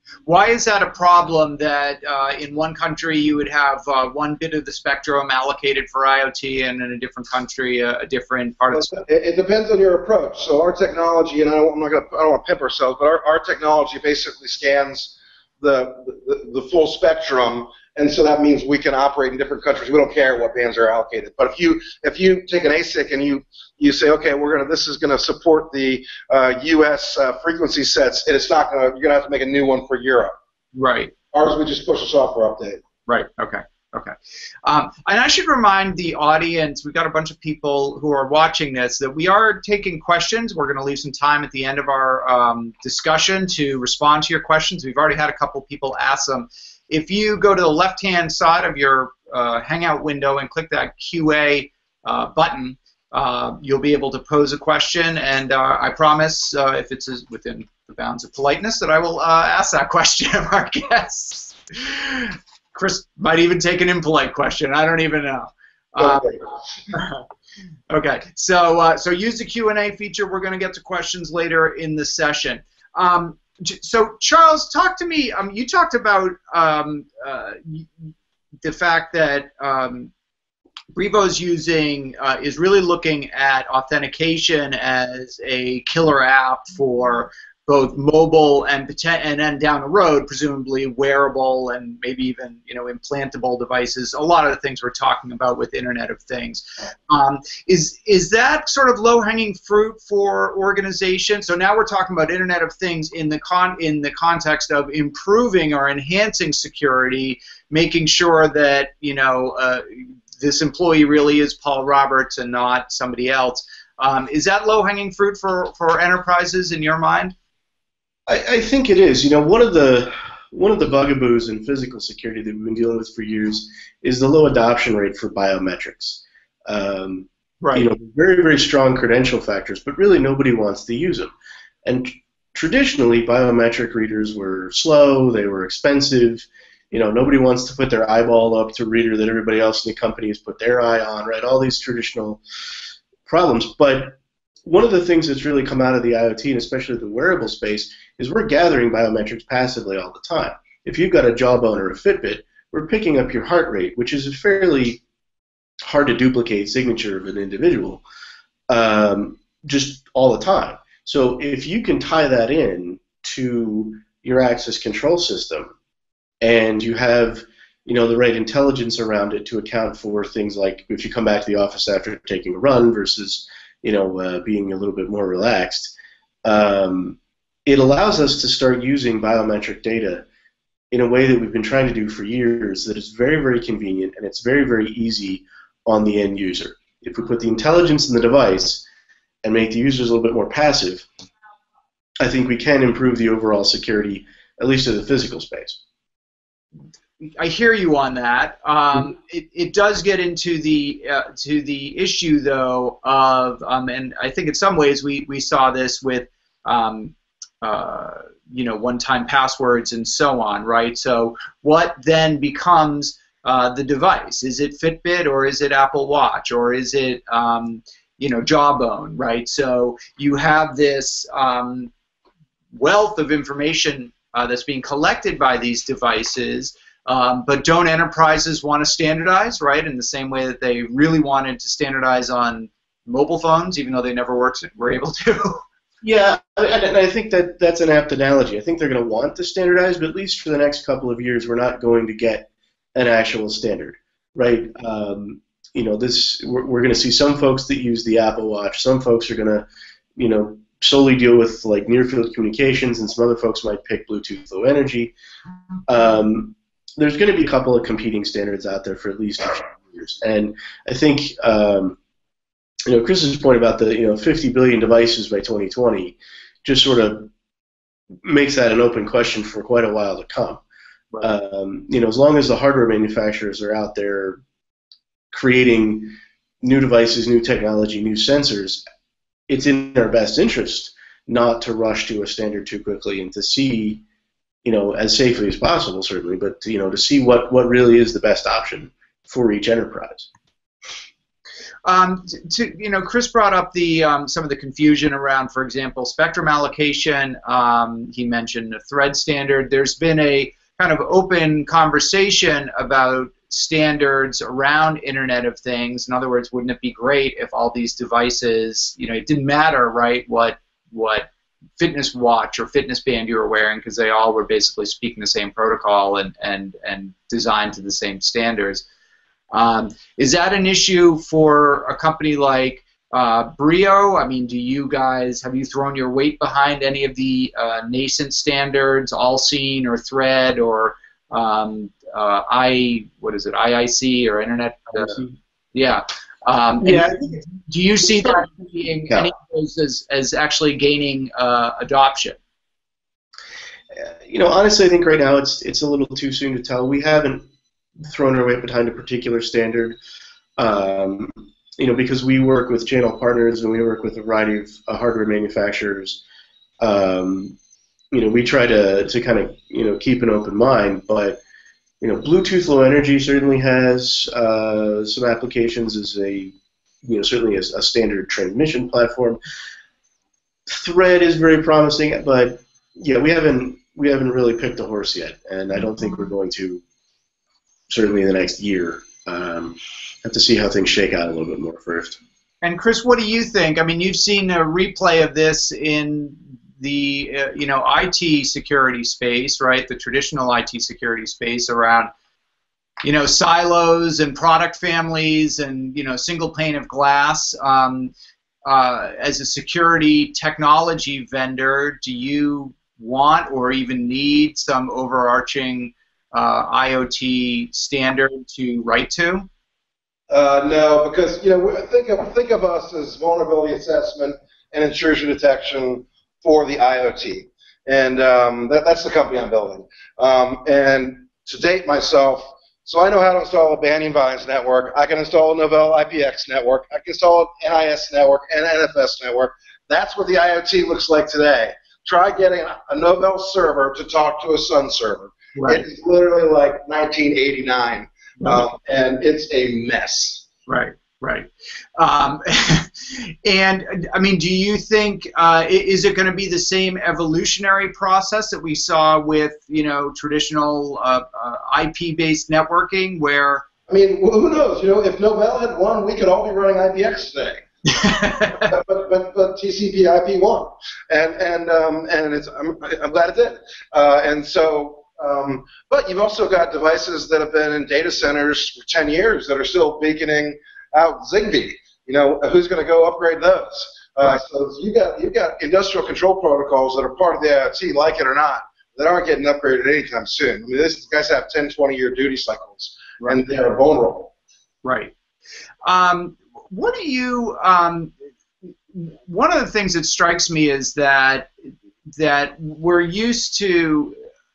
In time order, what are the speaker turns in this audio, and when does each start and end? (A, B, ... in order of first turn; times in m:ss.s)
0:00.2-0:09.0 A
0:08.7-0:30.3 B
0:30.7-0:31.1 A
0:31.3-0:32.8 B
0:33.1-0:34.1 A
0:34.6-1:06.4 A
1:06.0-1:06.4 B
1:06.9-1:07.2 A
1:07.9-1:17.9 A
1:18.6-1:20.1 A
1:20.9-1:57.3 A
1:58.3-2:11.3 C
2:07.6-2:07.8 A
2:11.8-2:22.4 C
2:23.2-2:35.0 C
2:35.8-2:38.0 C
2:38.7-2:45.7 C
2:46.4-3:00.2 C
3:00.9-3:08.8 C
3:09.4-3:11.1 C
3:12.2-3:15.8 C
3:17.4-3:41.9 A
3:42.7-3:55.6 A
3:56.0-4:09.6 C
4:10.2-4:15.1 C
4:15.9-4:22.0 C
4:22.8-4:27.3 C
4:28.2-4:30.6 C
4:31.2-4:34.4 C
4:35.3-4:38.8 C
4:39.5-4:44.0 C
4:44.6-4:50.3 C
4:51.8-5:18.8 A
5:19.5-5:42.4 A
5:35.0-5:35.3 C
5:36.8-5:37.4 C
5:38.1-5:38.4 C
5:43.9-5:47.4 C
5:48.0-5:50.0 C
5:50.6-5:56.2 C
5:56.8-5:57.6 C
5:58.1-6:01.4 C
6:02.0-6:09.4 C
6:10.7-6:16.8 C
6:17.9-6:22.2 C
6:22.6-6:32.1 A
6:33.0-6:38.1 A
6:38.6-6:49.5 A
6:50.3-7:20.4 B
7:15.5-7:15.8 A
7:20.7-7:33.6 A
7:33.9-7:37.6 B
7:37.9-7:38.7 A
7:38.4-8:04.3 B
8:04.8-8:05.1 A
8:05.8-8:08.1 A
8:08.9-8:11.5 A
8:12.1-8:14.2 A